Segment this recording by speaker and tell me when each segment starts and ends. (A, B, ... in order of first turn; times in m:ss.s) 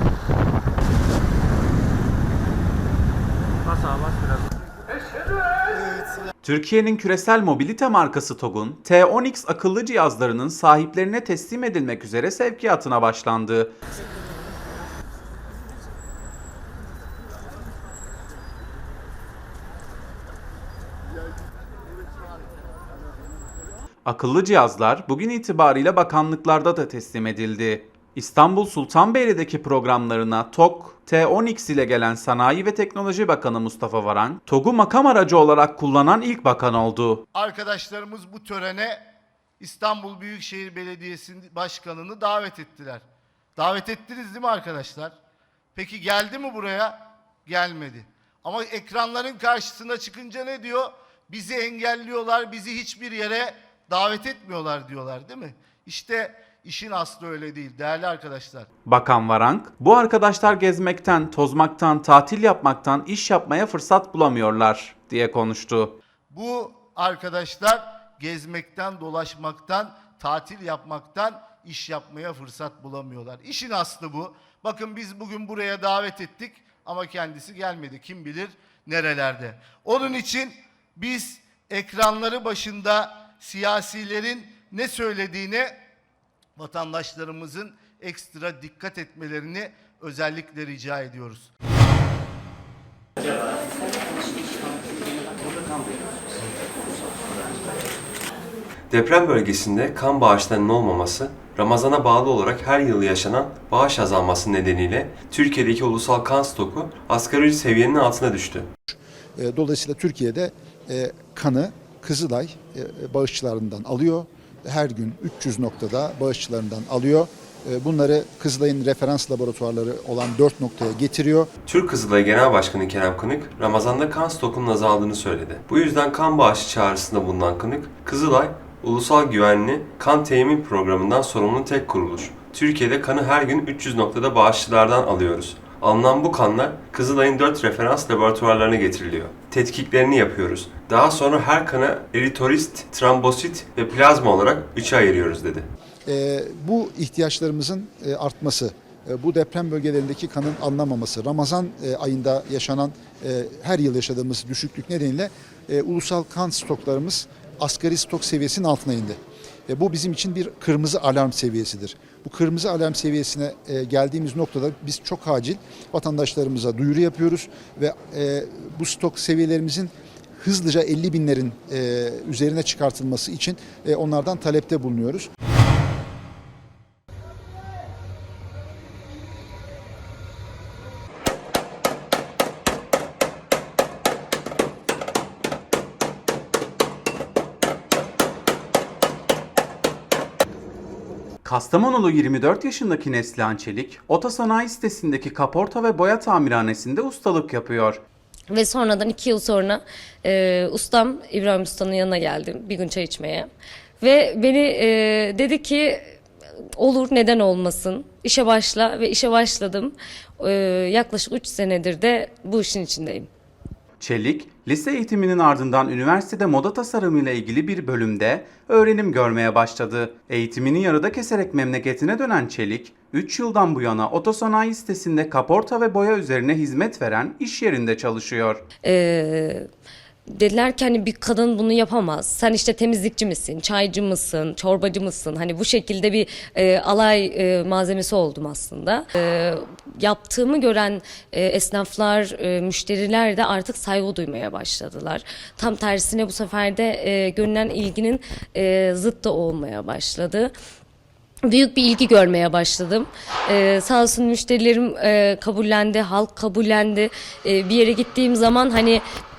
0:06.4-0:13.7 A
0:24.0-0:37.2 A
0:37.3-0:39.1 B
0:39.6-0:43.0 B
0:43.6-0:45.2 B
0:45.8-0:58.7 B
0:58.9-1:05.9 A
1:06.3-1:25.8 B
1:26.6-1:31.5 B
1:38.9-1:48.7 C
1:48.9-2:01.5 D
2:01.7-2:25.7 C
2:26.1-2:55.3 D
3:11.4-3:18.0 A
3:18.5-3:23.5 E
3:24.0-3:26.0 E
3:26.8-3:33.3 E
3:34.0-3:48.6 A
3:48.8-3:49.6 E
3:50.3-4:10.5 E
4:11.5-4:19.0 E